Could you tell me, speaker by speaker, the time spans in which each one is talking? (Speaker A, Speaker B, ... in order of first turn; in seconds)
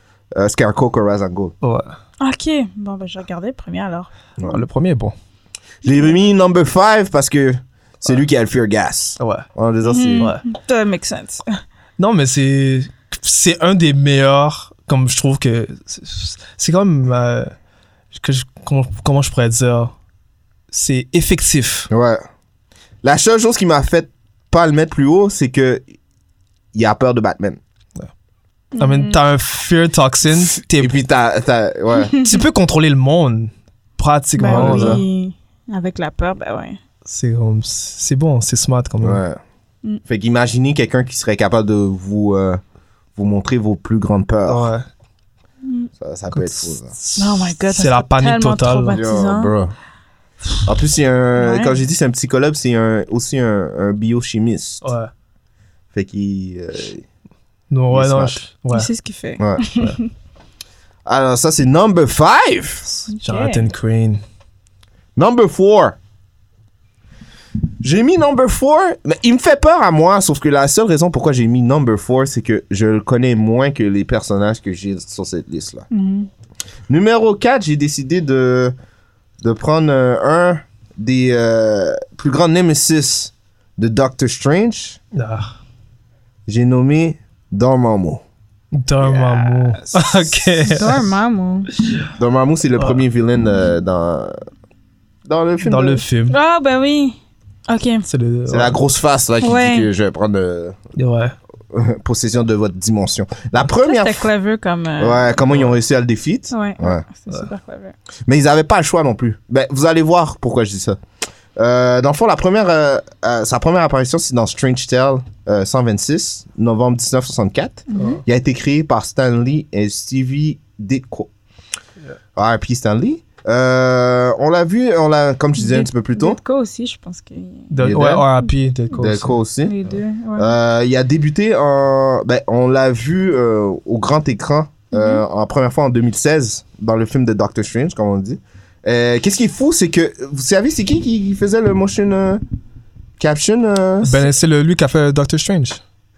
Speaker A: 0.3-1.5, 5.8-10.3, 21.9-22.2, 23.0-25.8, 26.7-27.6, 30.7-32.2, 34.5-35.0, 39.0-39.4, 40.0-42.6, 43.1-44.7, 46.0-46.9, 48.9-49.7, 50.6-54.9, 55.9-57.0, 57.9-58.4, 59.4-59.6, 61.1-62.9, 65.2-66.0, 67.8-75.9, 76.9-78.8, 79.4-85.0, 86.5-88.2, 89.0-90.4, 92.2-94.4, 95.3-96.0, 98.5-100.8, 101.7-104.3, 105.0-107.0, 108.3-111.0, 111.6-121.3, 122.4-126.4, 127.8-128.3, 129.0-129.8, 130.4-142.4, 143.2-144.1
Speaker B: 1.6-2.0, 4.4-5.2, 9.2-9.5, 10.2-10.4, 12.0-17.5, 18.1-19.9, 20.7-21.9, 28.8-31.0, 32.2-35.0, 37.1-39.2, 44.5-44.9, 46.3-49.0, 54.8-55.1, 57.7-58.9, 63.2-64.2, 85.1-85.5, 88.7-91.0, 95.6-96.3, 98.1-98.8, 101.0-101.3, 118.0-118.2, 127.7-129.4, 144.0-145.8
Speaker C: 2.2-4.1, 9.9-11.5, 28.7-29.2, 32.0-32.4, 34.4-36.8, 45.6-45.9, 47.2-49.6, 51.4-51.8, 58.7-60.1, 63.1-63.7, 75.9-76.3, 90.7-91.7, 96.3-97.2, 97.7-98.1, 99.4-99.9, 103.8-105.4, 106.5-108.0, 117.9-118.2, 125.6-127.9, 129.7-130.5, 134.9-135.2